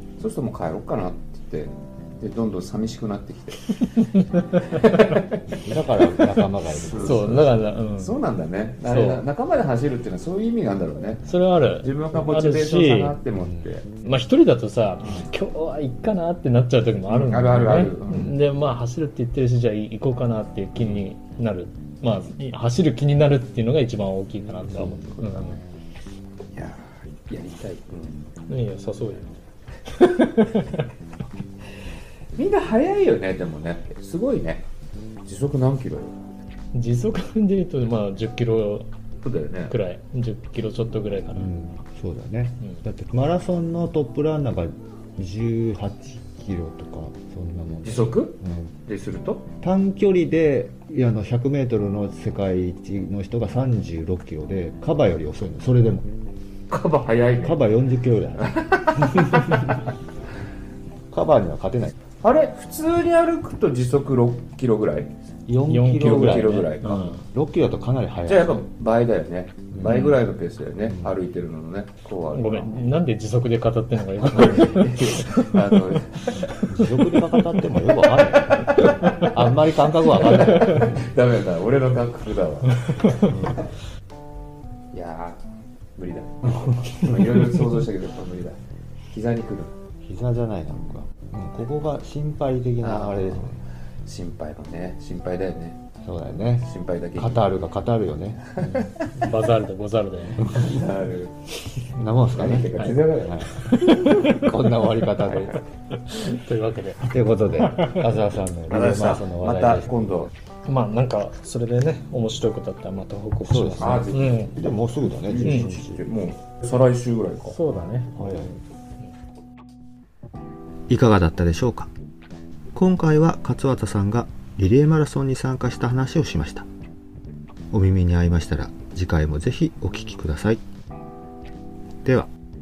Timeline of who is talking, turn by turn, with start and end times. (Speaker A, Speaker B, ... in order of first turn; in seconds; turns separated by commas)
Speaker A: 0.2-3.8, Speaker B: 3.9-5.1, Speaker A: 4.6-5.3, Speaker C: 5.6-7.4, Speaker A: 6.6-13.8, Speaker B: 7.0-8.2, Speaker B: 8.8-9.2, Speaker B: 11.2-13.2, Speaker C: 13.3-13.6, Speaker B: 14.0-25.6, Speaker A: 17.1-18.4, Speaker A: 24.7-25.6, Speaker A: 26.5-28.3, Speaker B: 28.5-29.3, Speaker B: 29.9-30.9, Speaker A: 32.4-34.6, Speaker A: 35.2-36.1, Speaker B: 36.7-38.9, Speaker A: 39.2-39.7, Speaker B: 39.7-41.5, Speaker C: 41.3-48.7, Speaker A: 47.8-49.4, Speaker C: 49.6-56.1, Speaker A: 56.7-57.6, Speaker C: 57.4-59.4, Speaker A: 58.4-59.5, Speaker C: 61.1-61.9, Speaker A: 62.2-65.1, Speaker C: 65.5-68.6, Speaker B: 65.7-67.2, Speaker A: 65.9-67.1, Speaker A: 68.2-72.8, Speaker C: 69.7-70.2, Speaker B: 69.8-70.1, Speaker C: 70.9-71.1, Speaker B: 72.3-75.5, Speaker A: 74.2-76.2, Speaker B: 76.3-77.4, Speaker C: 76.7-80.9, Speaker A: 78.6-79.2, Speaker A: 80.1-83.6, Speaker A: 84.9-85.4, Speaker A: 86.0-88.6, Speaker A: 89.1-89.7, Speaker C: 90.0-93.5, Speaker A: 92.8-95.8, Speaker C: 96.0-98.5, Speaker A: 96.6-97.5, Speaker B: 98.6-100.5, Speaker A: 100.5-101.3, Speaker C: 101.9-105.6, Speaker A: 102.3-103.5, Speaker B: 103.6-104.8, Speaker A: 105.2-105.6, Speaker B: 106.0-107.0, Speaker C: 107.0-109.9, Speaker B: 107.7-108.0, Speaker A: 108.7-110.3, Speaker B: 110.6-114.5, Speaker C: 113.4-116.1, Speaker A: 113.8-114.7, Speaker A: 115.3-117.6, Speaker B: 115.4-115.7, Speaker B: 117.5-118.1, Speaker C: 118.2-118.5, Speaker C: 120.9-121.9, Speaker C: 122.7-126.7, Speaker C: 127.7-130.6, Speaker C: 132.0-132.3